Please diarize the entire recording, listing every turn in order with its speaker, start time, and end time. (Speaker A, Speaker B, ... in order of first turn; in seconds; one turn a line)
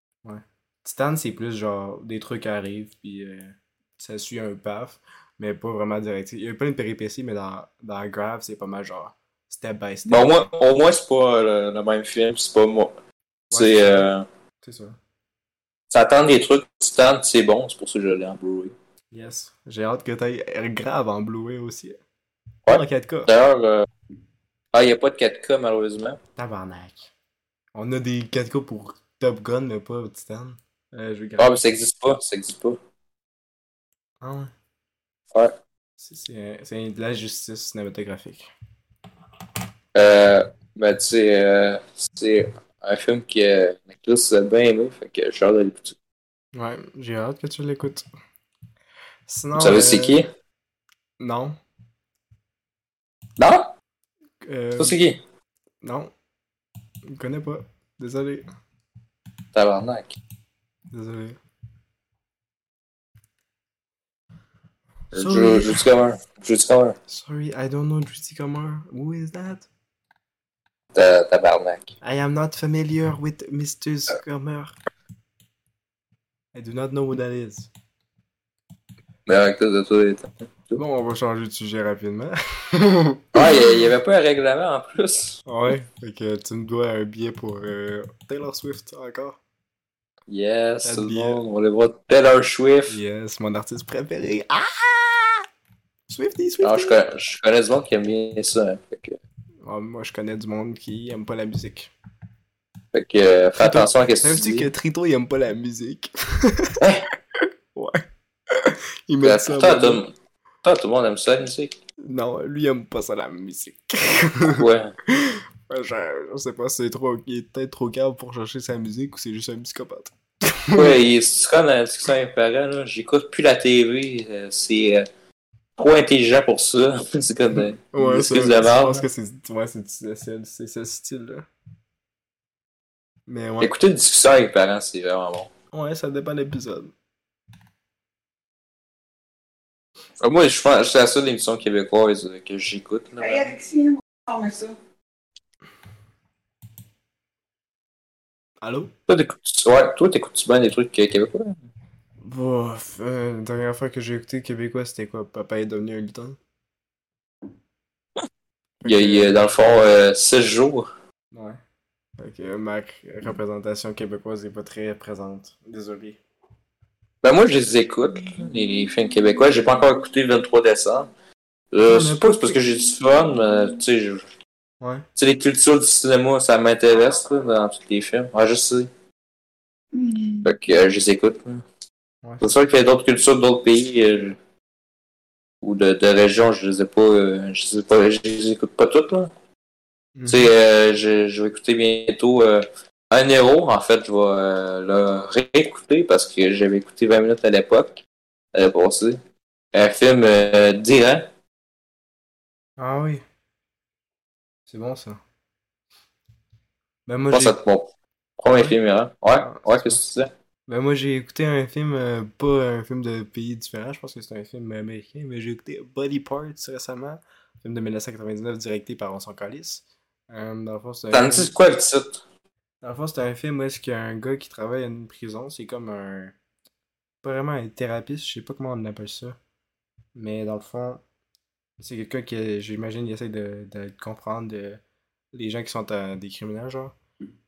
Speaker A: 0.2-10.5
Speaker B: 10.1-12.9
Speaker B: 13.5-14.3
Speaker A: 13.5-14.1
Speaker A: 14.6-15.0
Speaker B: 15.9-18.8
Speaker A: 19.1-22.0
Speaker B: 22.7-23.9
Speaker A: 22.7-23.3
Speaker B: 24.7-26.2
Speaker A: 26.4-27.1
Speaker A: 27.8-31.5
Speaker B: 31.4-32.8
Speaker A: 34.2-34.5
Speaker A: 36.0-38.5
Speaker B: 40.0-46.0
Speaker A: 46.5-48.0
Speaker A: 49.3-50.2
Speaker B: 49.6-50.3
Speaker A: 51.2-51.6
Speaker B: 53.4-53.7
Speaker A: 54.4-55.0
Speaker B: 54.8-55.2
Speaker A: 55.8-56.1
Speaker A: 57.1-58.5
Speaker B: 59.5-60.2
Speaker A: 60.9-61.4
Speaker B: 65.1-67.0
Speaker A: 65.1-65.8
Speaker A: 67.1-69.7
Speaker B: 70.9-71.9
Speaker A: 72.0-74.8
Speaker A: 76.5-77.7
Speaker B: 79.3-80.8
Speaker A: 80.8-83.6
Speaker B: 83.3-85.4
Speaker A: 85.5-89.4
Speaker B: 90.3-93.0
Speaker A: 90.8-91.4
Speaker A: 92.9-95.5
Speaker A: 96.1-97.0
Speaker B: 96.6-99.2
Speaker A: 99.6-101.9
Speaker B: 102.9-104.7
Speaker A: 103.6-106.8
Speaker B: 106.8-107.1
Speaker A: 107.7-110.0
Speaker B: 109.2-110.1
Speaker B: 110.6-111.8
Speaker A: 112.1-121.0
Speaker B: 114.6-114.9
Speaker B: 120.7-125.1
Speaker B: 125.8-129.1
Speaker A: 127.6-131.5
Speaker A: 133.3-133.8
Speaker B: 133.6-135.5
Speaker A: 135.7-136.9
Speaker B: 140.2-143.6
Speaker C: 143.3-144.8
Speaker A: 148.6-148.9
Speaker B: 149.1-151.6
Speaker A: 152.2-156.4
Speaker A: 158.8-159.5
Speaker B: 158.9-160.9
Speaker A: 161.3-161.6
Speaker A: 162.2-166.2
Speaker B: 167.2-171.1
Speaker B: 171.7-174.3
Speaker A: 171.8-172.6
Speaker A: 174.8-175.1
Speaker B: 175.2-178.9
Speaker C: 179.9-180.5
Speaker B: 180.4-181.6
Speaker A: 182.2-182.6
Speaker B: 182.4-184.4
Speaker B: 185.6-189.3
Speaker A: 190.2-190.5
Speaker B: 190.3-198.0
Speaker B: 198.5-199.2
Speaker B: 199.7-201.3
Speaker A: 202.8-203.2
Speaker A: 204.7-205.2
Speaker A: 207.1-207.6
Speaker B: 207.3-210.3
Speaker A: 208.5-208.8
Speaker A: 209.4-210.0
Speaker A: 210.7-221.5
Speaker B: 221.1-222.2
Speaker A: 222.8-226.3
Speaker A: 227.2-229.4
Speaker A: 230.2-231.0
Speaker A: 231.8-234.8
Speaker A: 235.3-237.0